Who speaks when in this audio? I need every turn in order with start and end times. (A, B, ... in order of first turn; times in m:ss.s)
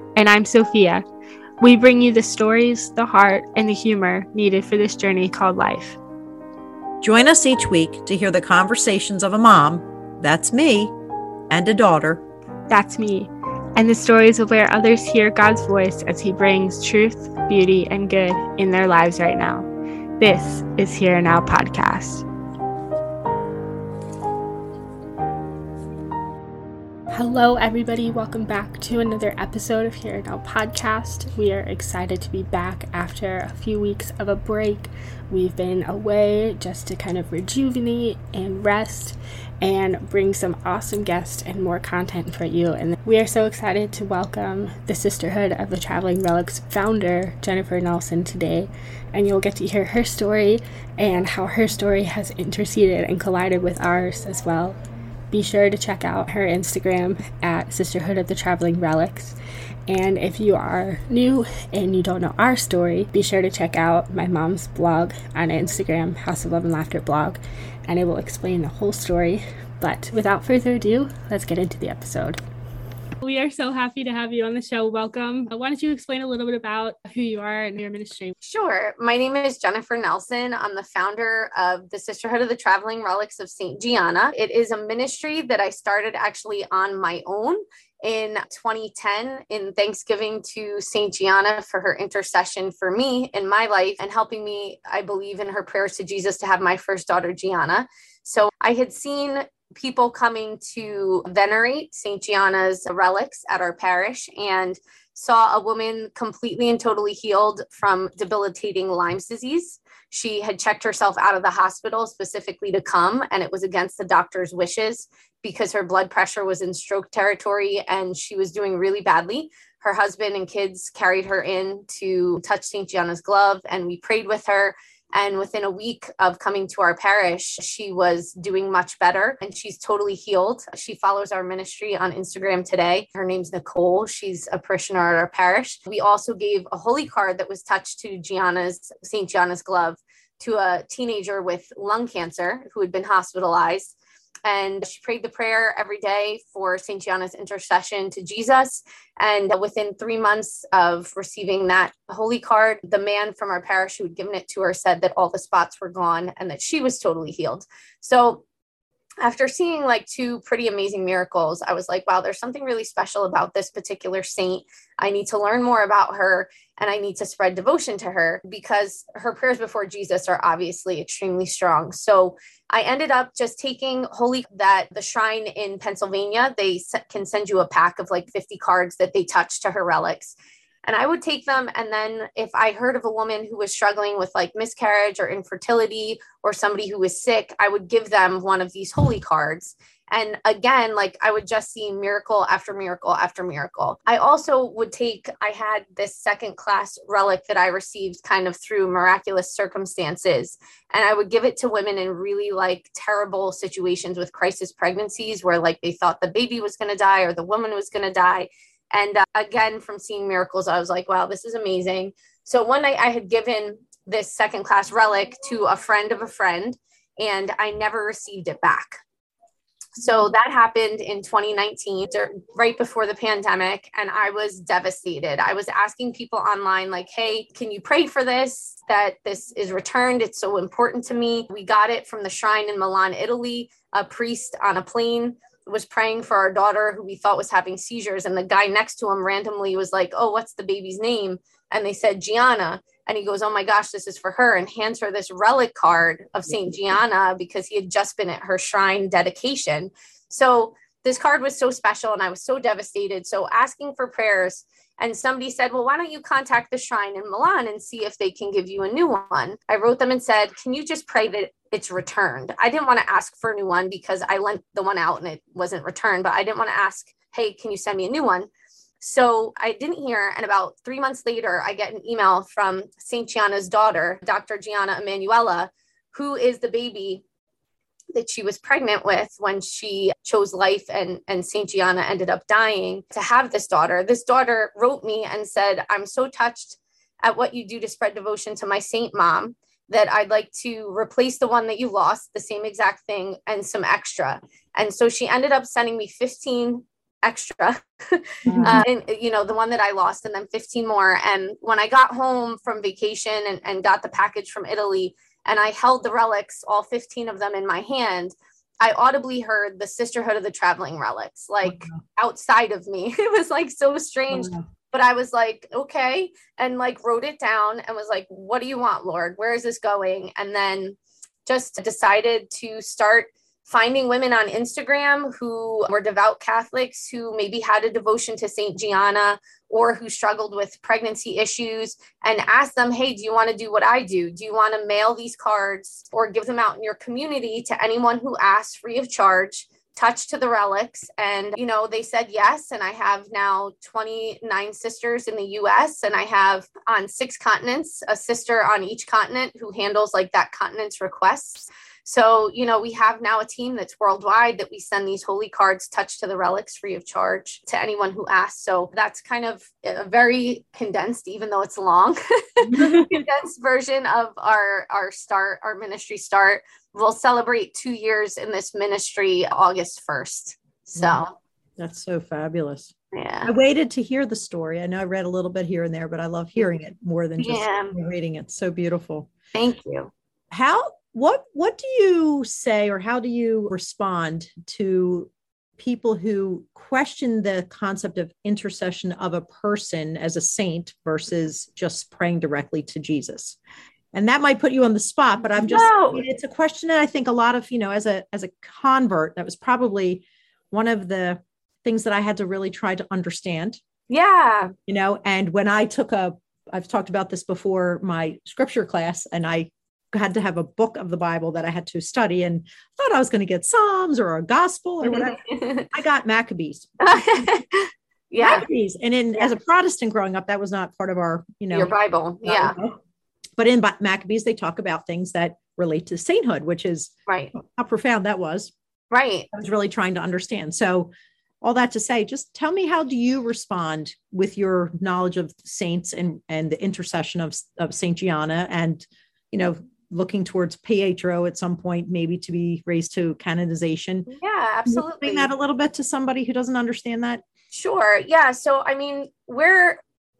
0:00.1-0:01.0 A
0:01.6-0:06.0 A
0:07.0-0:10.9 B
0:11.5-0:12.2 B
0:12.7-0:19.7 A
0:20.2-0:22.2 A
0:27.1-0:54.8 A
0:55.3-0:59.4 A
0:59.9-1:12.4 A
1:13.2-1:18.3 A
1:18.4-2:38.4 C
2:39.2-3:39.0 C
3:40.0-4:28.5 C
4:29.0-4:37.2 C
4:38.1-6:11.3 C
4:58.4-4:58.8 B
5:11.6-5:12.0 B
5:14.3-5:14.6 B
6:02.7-6:03.0 B
6:10.9-6:11.2 B
6:11.8-6:12.9 B
6:13.1-6:13.5 C
6:13.4-6:19.3 B
6:17.4-6:17.9 C
6:19.5-6:20.1 C
6:20.5-6:33.6 B
6:34.1-6:43.8 B
6:35.6-6:36.2 C
6:44.1-6:44.7 C
6:44.9-6:56.9 B
6:55.0-6:55.9 C
6:57.0-6:58.6 C
6:58.4-7:03.0 B
7:01.7-7:02.8 C
7:03.6-7:08.7 B
7:07.3-7:07.5 C
7:09.1-7:09.5 C
7:09.5-7:11.1 B
7:11.6-7:24.3 B
7:24.3-7:25.5 C
7:24.8-7:27.4 B
7:27.7-7:30.0 C